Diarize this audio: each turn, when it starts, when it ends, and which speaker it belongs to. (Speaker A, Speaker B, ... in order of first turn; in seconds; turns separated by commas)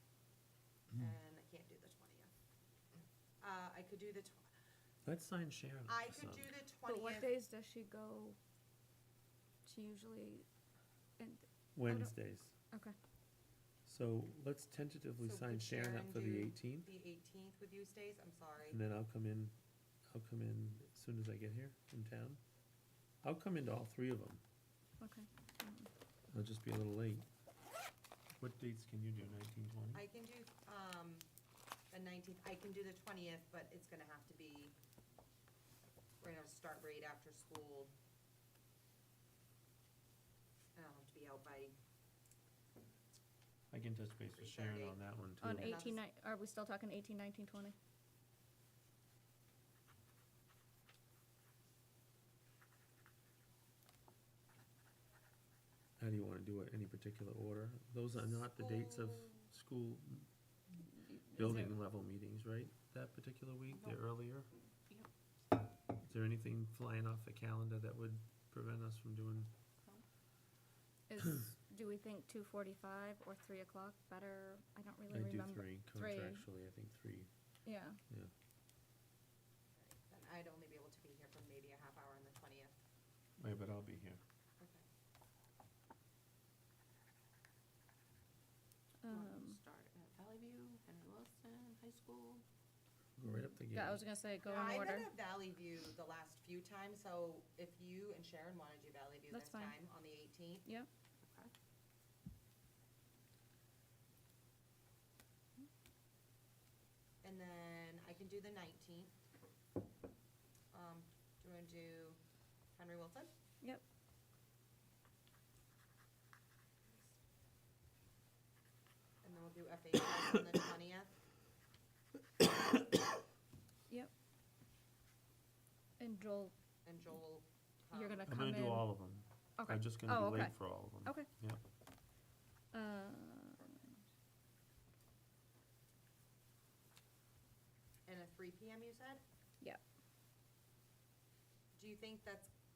Speaker A: 0.9-2.3, Speaker A: 3.4-4.5, Speaker B: 5.0-6.5, Speaker A: 5.9-7.3, Speaker C: 6.8-8.4, Speaker C: 9.7-10.5, Speaker C: 11.2-12.1, Speaker B: 11.8-12.6, Speaker B: 13.9-16.9, Speaker A: 15.2-18.8, Speaker B: 18.7-19.6, Speaker B: 20.1-22.4, Speaker B: 23.2-24.4, Speaker C: 25.0-25.9, Speaker B: 26.3-27.3, Speaker B: 28.4-30.0, Speaker A: 29.9-31.3, Speaker A: 31.9-34.7, Speaker A: 36.2-37.9, Speaker A: 40.8-41.7, Speaker B: 43.7-45.8, Speaker A: 44.4-45.0, Speaker C: 45.4-47.8, Speaker A: 45.5-46.0, Speaker B: 56.0-60.3, Speaker A: 58.1-59.4, Speaker C: 61.1-61.7, Speaker B: 61.3-64.5, Speaker D: 63.7-64.0, Speaker B: 66.0-69.5, Speaker C: 71.1-76.5, Speaker B: 75.1-77.3, Speaker C: 77.7-78.0, Speaker A: 79.8-82.7, Speaker B: 83.4-84.2, Speaker C: 89.0-89.6, Speaker D: 89.1-92.5, Speaker B: 93.2-94.0, Speaker C: 93.7-95.1, Speaker D: 94.5-94.9, Speaker A: 94.5-100.7, Speaker C: 99.3-99.7, Speaker D: 101.2-101.5, Speaker A: 107.2-109.1, Speaker A: 110.7-112.2, Speaker A: 112.8-113.3, Speaker A: 119.2-121.1, Speaker C: 126.0-126.5, Speaker A: 126.8-128.4, Speaker C: 127.9-128.9, Speaker B: 128.3-131.6, Speaker C: 129.6-131.3, Speaker C: 132.7-133.9, Speaker A: 138.1-139.2, Speaker A: 141.8-142.5